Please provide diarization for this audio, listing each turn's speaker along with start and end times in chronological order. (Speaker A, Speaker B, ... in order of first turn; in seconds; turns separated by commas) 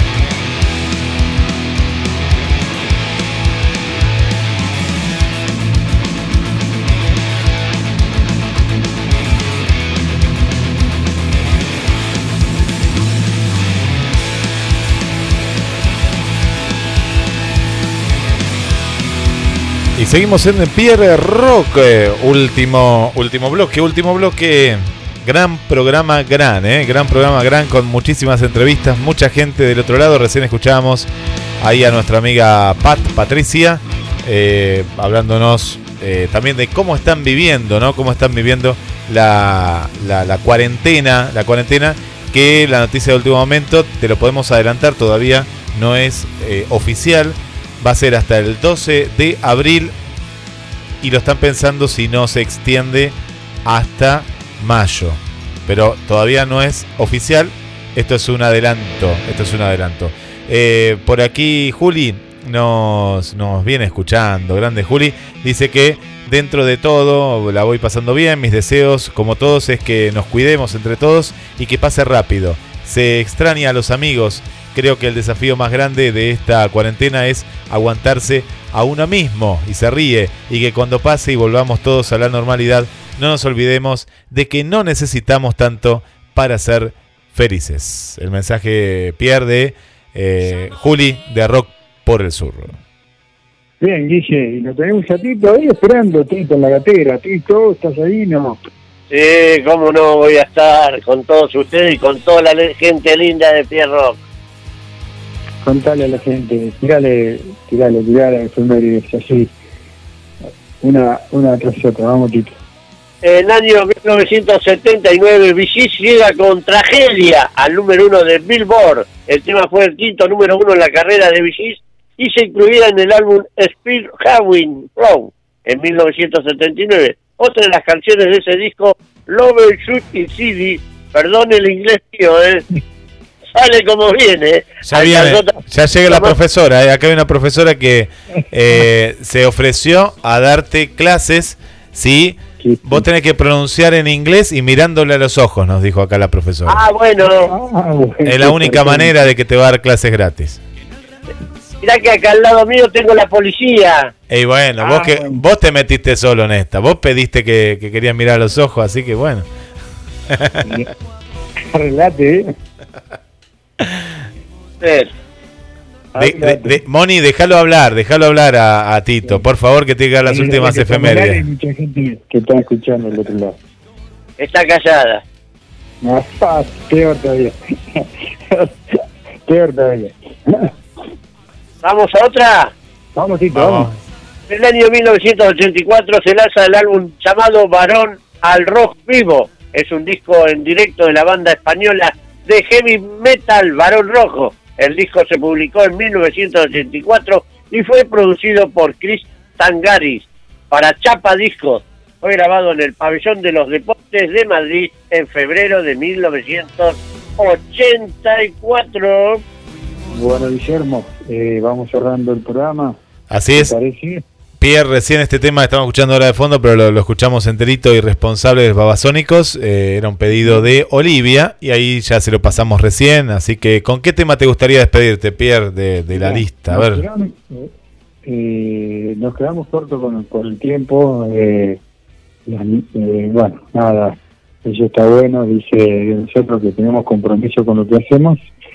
Speaker A: 20.0-31.1, Speaker A: 31.6-50.0, Speaker A: 51.0-92.8, Speaker B: 93.8-98.6, Speaker C: 99.1-104.2, Speaker B: 105.6-109.5, Speaker B: 110.8-112.6, Speaker C: 113.2-132.7, Speaker C: 133.6-136.3, Speaker A: 134.8-146.8, Speaker B: 142.6-143.1, Speaker C: 146.7-147.5, Speaker B: 147.3-149.2, Speaker A: 148.2-150.6, Speaker C: 151.8-154.1, Speaker A: 154.3-159.5, Speaker B: 154.8-155.4, Speaker A: 160.3-160.8, Speaker B: 160.6-160.9, Speaker B: 161.7-162.5, Speaker C: 164.8-165.1, Speaker B: 166.2-166.8, Speaker A: 166.2-171.4, Speaker B: 170.3-173.6, Speaker C: 174.4-175.2, Speaker B: 176.0-180.7, Speaker C: 181.8-182.7, Speaker B: 183.2-183.9, Speaker A: 183.5-183.9, Speaker C: 184.5-209.4, Speaker B: 210.1-213.0, Speaker A: 213.3-213.7, Speaker B: 213.6-214.2, Speaker A: 214.6-227.0, Speaker B: 220.4-220.7, Speaker B: 226.1-227.7, Speaker B: 228.2-231.8, Speaker B: 232.5-238.4